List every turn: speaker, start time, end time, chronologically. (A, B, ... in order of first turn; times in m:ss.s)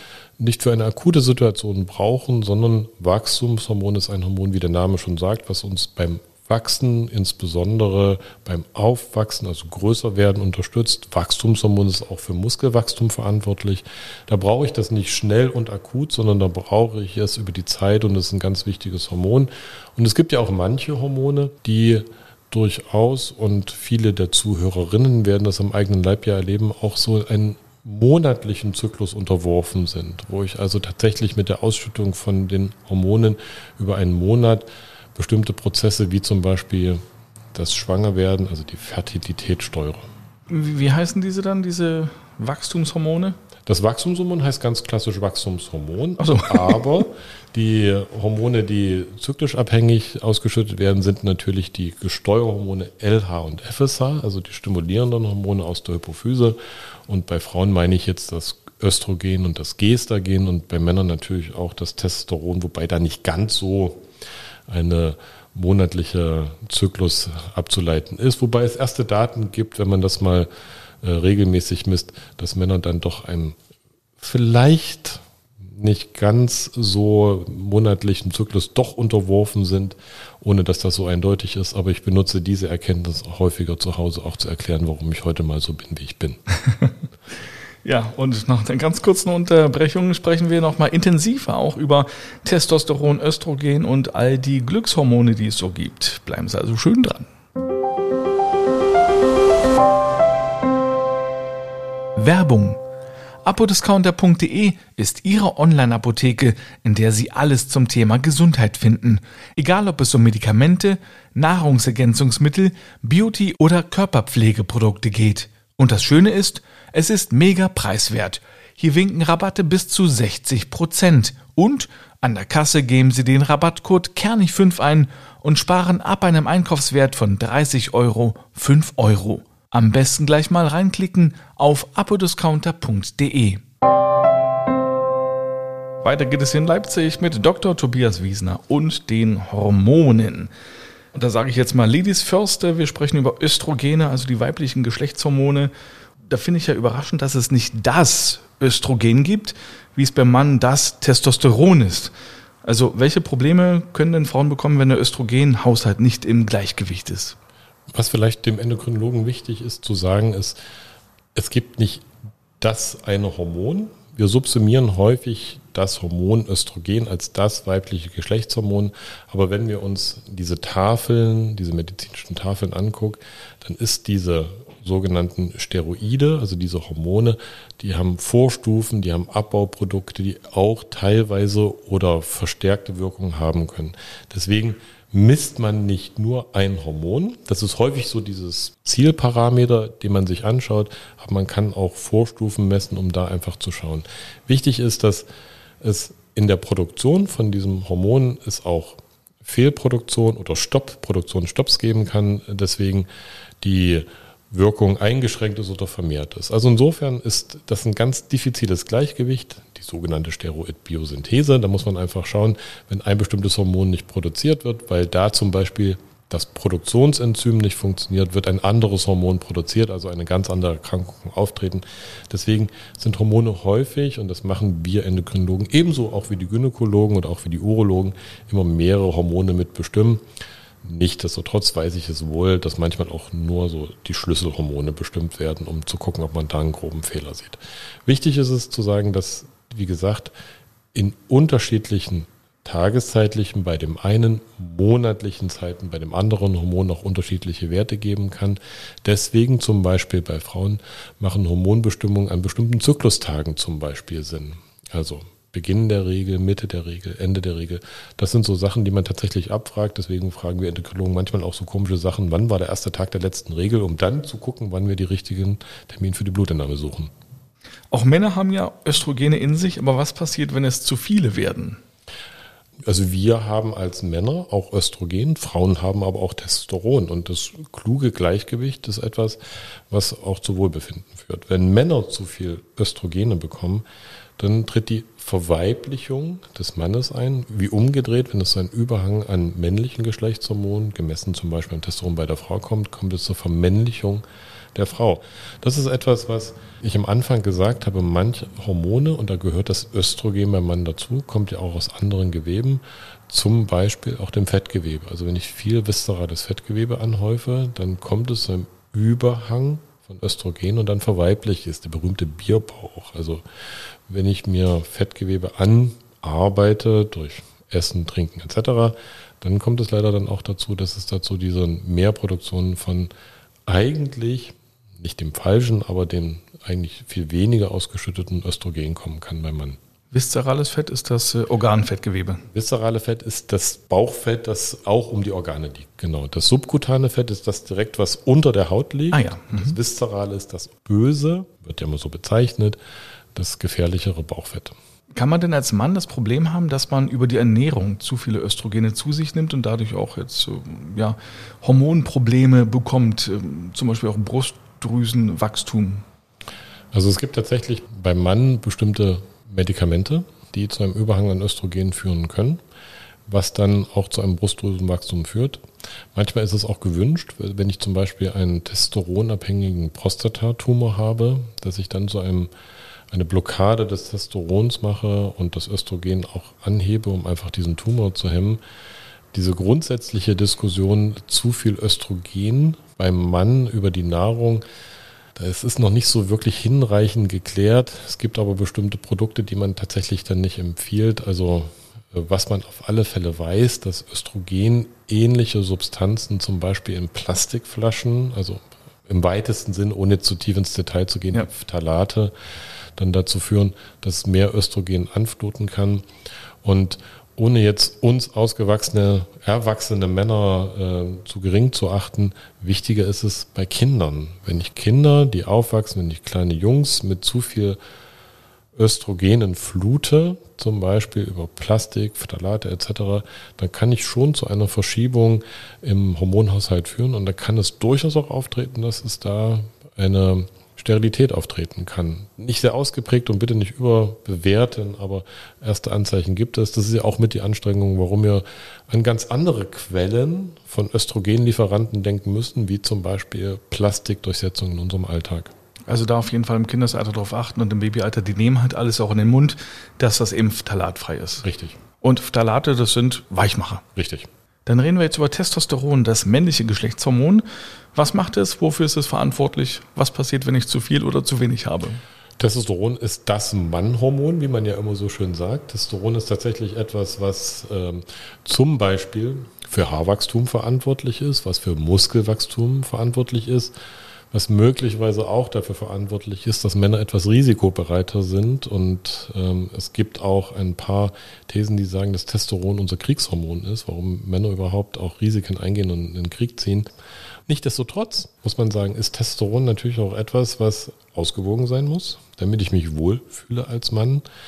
0:00.4-0:37.0 A
0:37.5-0:40.1 A
0:40.5-0:43.4 B
0:43.6-1:04.0 A
0:46.2-0:46.8 B
1:04.7-1:10.5 A
1:11.0-1:13.6 A
1:14.2-1:26.4 A
1:27.8-1:37.3 B
1:42.2-1:42.8 B
1:43.4-2:13.6 B
2:16.0-2:20.5 B
2:21.1-2:25.7 B
2:26.3-2:32.1 B
2:32.6-2:37.4 B
2:37.9-2:40.6 A
2:41.3-2:42.1 A
2:42.6-3:15.2 A
3:15.8-3:23.1 A
3:23.6-3:50.2 A
3:50.8-4:00.3 A
4:00.9-4:27.1 A
4:27.9-4:31.8 B
4:32.8-4:43.8 A
4:44.4-5:13.4 A
5:14.1-5:23.1 A
5:23.6-5:29.8 A
5:30.1-5:32.4 B
5:32.5-5:42.8 A
5:39.1-5:39.7 B
5:43.3-5:44.8 A
5:45.1-5:56.0 B
5:56.9-6:02.6 A
6:03.3-6:05.6 A
6:06.1-6:12.5 A
6:13.1-6:18.6 A
6:19.3-6:24.6 A
6:25.3-6:42.3 A
6:43.0-6:46.0 A
6:46.6-6:57.8 A
6:58.7-7:25.5 A
7:25.9-7:31.4 B
7:31.4-7:31.8 A
7:32.0-7:33.8 B
7:33.9-7:34.3 A
7:34.6-7:42.0 B
7:42.4-7:53.7 A
7:54.3-8:06.9 A
8:07.5-8:14.2 A